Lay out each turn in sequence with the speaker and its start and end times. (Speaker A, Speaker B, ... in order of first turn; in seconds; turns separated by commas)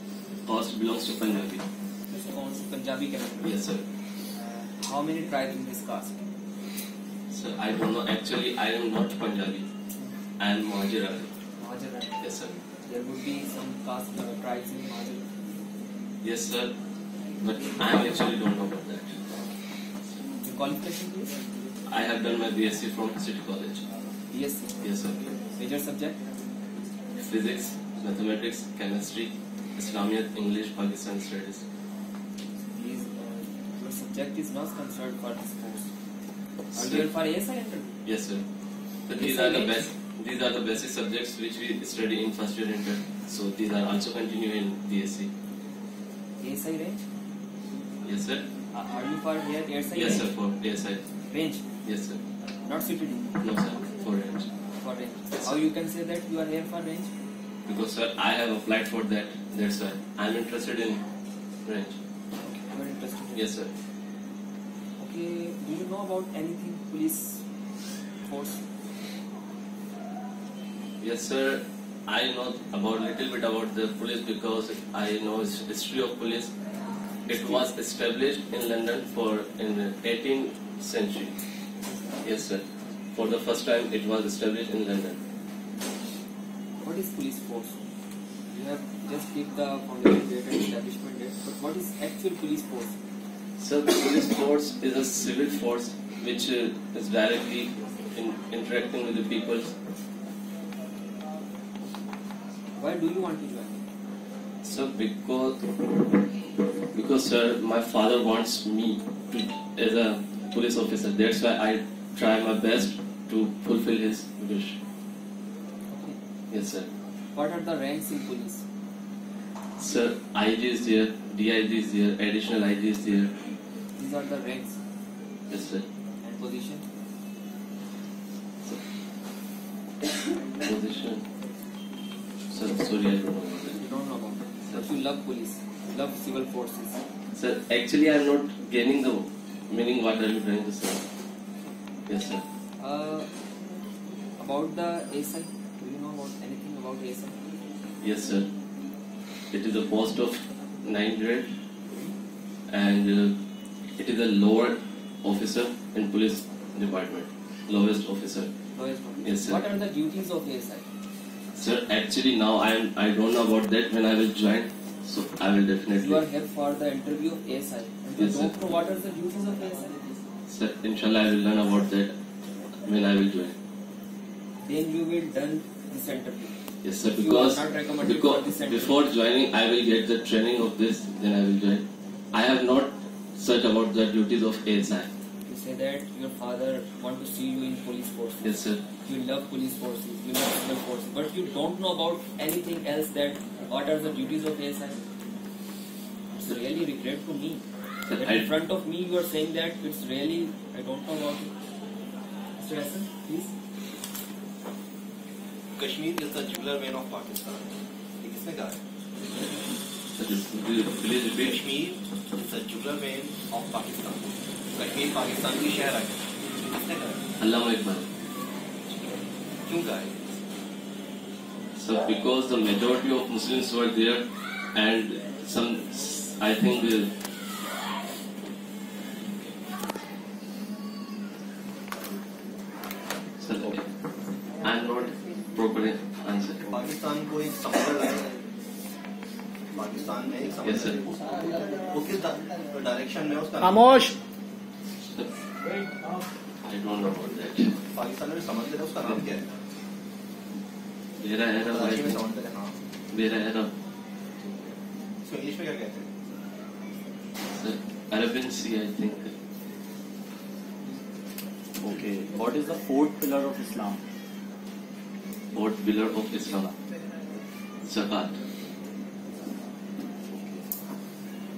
Speaker A: 0.5-1.7, Speaker B: 2.1-3.6, Speaker A: 3.4-3.8, Speaker B: 4.8-6.2, Speaker A: 7.3-9.7, Speaker A: 10.4-11.3, Speaker B: 11.6-12.2, Speaker A: 12.2-12.6, Speaker B: 12.8-15.2, Speaker A: 16.2-16.8, Speaker A: 17.4-19.2, Speaker B: 20.4-21.4, Speaker A: 21.9-23.8, Speaker B: 24.3-24.8, Speaker A: 24.8-25.3, Speaker B: 25.5-26.2, Speaker A: 27.1-31.6, Speaker B: 32.7-35.9, Speaker A: 36.7-37.1, Speaker B: 36.7-38.0, Speaker A: 38.0-38.5, Speaker A: 39.1-45.3, Speaker B: 39.1-39.9, Speaker B: 46.4-47.0, Speaker A: 48.0-48.5, Speaker B: 48.7-50.3, Speaker A: 49.9-51.0, Speaker B: 51.3-51.6, Speaker A: 51.8-52.2, Speaker B: 52.6-53.3, Speaker A: 53.4-54.5, Speaker B: 54.7-57.1, Speaker A: 55.3-55.6, Speaker A: 57.6-61.0, Speaker A: 61.6-62.0, Speaker B: 62.4-63.4, Speaker A: 63.3-63.7, Speaker B: 65.0-67.4, Speaker B: 68.2-68.6, Speaker A: 71.0-76.5, Speaker A: 77.2-81.4, Speaker B: 77.2-77.7, Speaker B: 81.8-82.2, Speaker A: 82.2-85.2, Speaker B: 86.8-87.8, Speaker B: 88.5-93.0, Speaker A: 93.6-99.8, Speaker B: 102.8-103.8, Speaker A: 104.6-105.6, Speaker A: 106.9-114.8, Speaker B: 115.9-116.2, Speaker A: 116.5-116.9, Speaker B: 117.3-118.6, Speaker A: 119.8-123.3, Speaker B: 123.9-124.8, Speaker A: 125.5-125.9, Speaker B: 126.2-126.8, Speaker A: 130.6-131.3, Speaker A: 132.5-133.8, Speaker B: 133.8-137.0, Speaker A: 134.6-134.9, Speaker A: 137.3-141.0, Speaker A: 142.1-142.4, Speaker B: 142.8-143.3, Speaker B: 144.4-147.5, Speaker A: 148.0-148.5, Speaker A: 149.5-151.6, Speaker A: 152.7-153.4, Speaker A: 154.0-158.5, Speaker B: 158.7-160.8, Speaker A: 159.2-159.6, Speaker A: 161.6-166.2, Speaker B: 166.0-170.2, Speaker A: 168.2-168.5, Speaker A: 170.5-172.1, Speaker A: 172.8-173.6, Speaker B: 174.6-176.6, Speaker A: 176.8-185.1, Speaker B: 177.2-179.0, Speaker B: 185.4-188.5, Speaker A: 188.4-188.9, Speaker B: 189.0-195.0, Speaker B: 196.3-201.5, Speaker A: 198.1-198.5, Speaker B: 202.6-203.5, Speaker C: 205.8-207.7, Speaker C: 208.2-208.8, Speaker A: 210.1-211.6, Speaker C: 211.4-217.2, Speaker A: 217.4-218.1, Speaker C: 219.6-220.4, Speaker A: 221.8-227.1, Speaker A: 233.4-233.9, Speaker A: 234.6-236.6, Speaker C: 236.7-238.4, Speaker C: 239.7-244.1, Speaker A: 240.6-241.0, Speaker A: 245.1-245.3, Speaker A: 246.6-247.8, Speaker C: 247.9-249.5, Speaker A: 251.2-252.2, Speaker C: 251.6-252.8, Speaker A: 253.1-253.7, Speaker C: 254.4-256.1, Speaker A: 257.5-259.4, Speaker D: 261.8-264.0, Speaker A: 265.5-266.7, Speaker A: 267.8-268.4, Speaker D: 270.2-270.6